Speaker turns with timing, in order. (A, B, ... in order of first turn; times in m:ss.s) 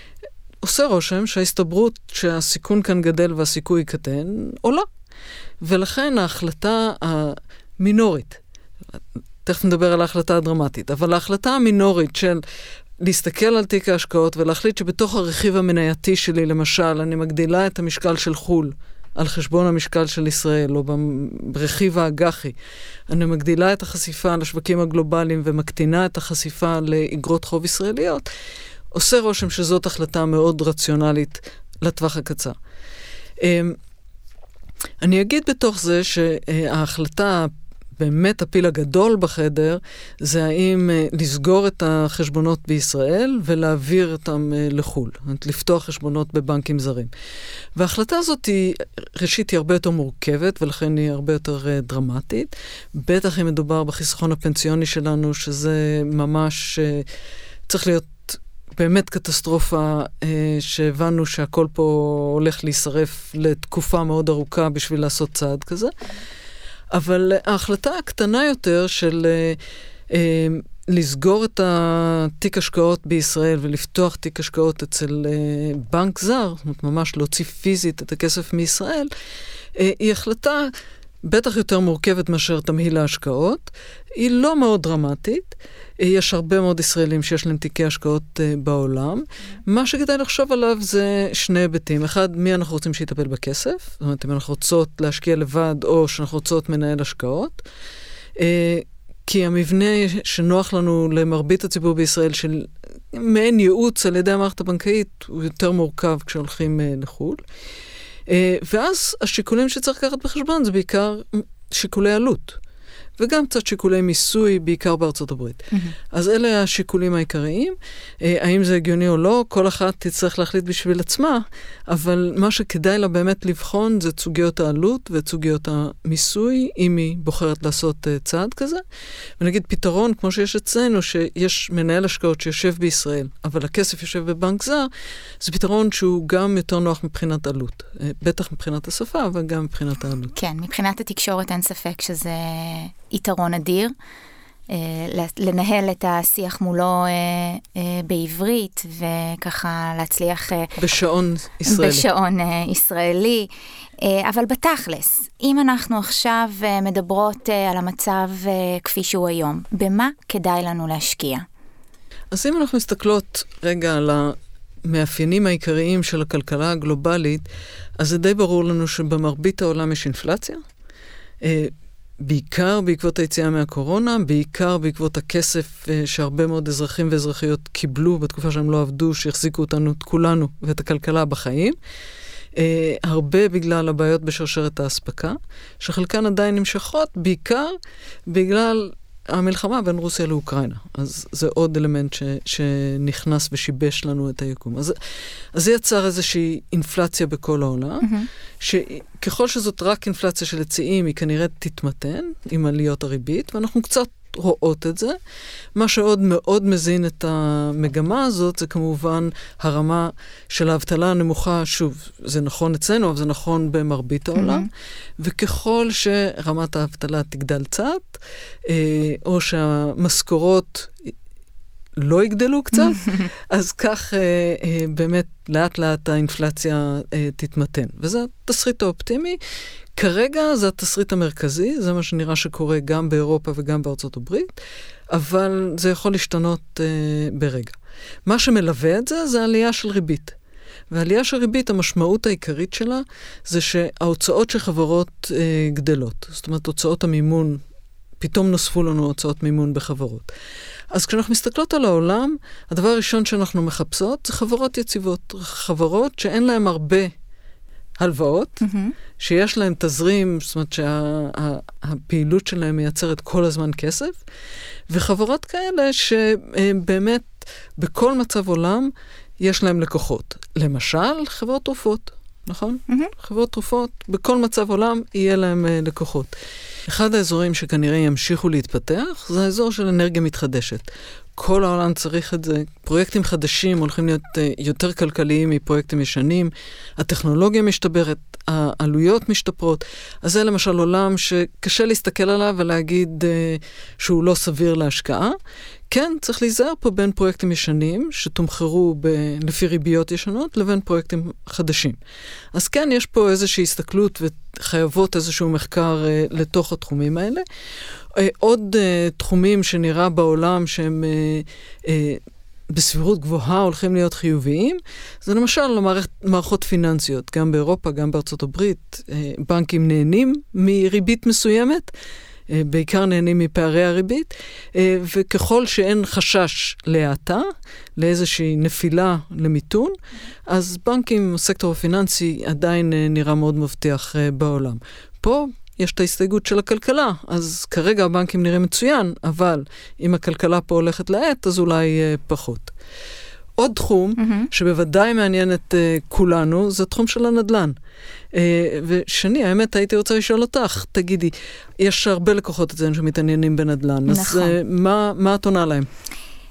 0:00.6-0:04.9 A
0:05.6-0:12.4 A
0:13.0-0:22.6 A
0:23.1-0:28.3 A
0:28.9-0:32.6 A
0:33.4-0:33.8 A
0:35.0-0:47.1 A
0:47.7-0:57.1 A
0:57.7-1:05.9 A
1:06.9-1:19.1 A
1:19.7-1:20.7 A
1:21.2-1:37.6 A
1:38.4-1:47.4 A
1:48.2-1:52.6 A
1:53.2-2:08.8 A
2:09.4-2:20.3 A
2:20.3-2:23.9 B
2:24.7-2:30.8 B
2:30.8-2:32.1 A
2:31.6-2:41.4 B
2:42.3-2:47.4 A
2:48.0-2:50.6 A
2:51.4-3:01.8 A
3:02.5-3:07.7 A
3:08.3-3:15.0 A
3:15.5-3:25.2 A
3:18.0-3:18.3 B
3:25.7-3:41.1 A
3:34.3-3:34.7 B
3:42.0-3:49.4 A
3:50.0-4:00.4 A
4:00.9-4:07.6 A
4:08.2-4:10.3 A
4:10.9-4:17.1 A
4:18.0-4:18.6 A
4:18.6-4:18.9 B
4:19.2-4:24.2 A
4:24.9-4:36.3 A
4:36.8-4:55.4 A
4:55.9-5:02.0 A
5:02.5-5:07.4 A
5:08.1-5:21.9 A
5:22.5-5:29.9 A
5:30.5-5:42.7 A
5:43.6-5:47.7 A
5:44.2-5:44.5 B
5:48.3-5:55.9 A
5:54.1-5:54.6 B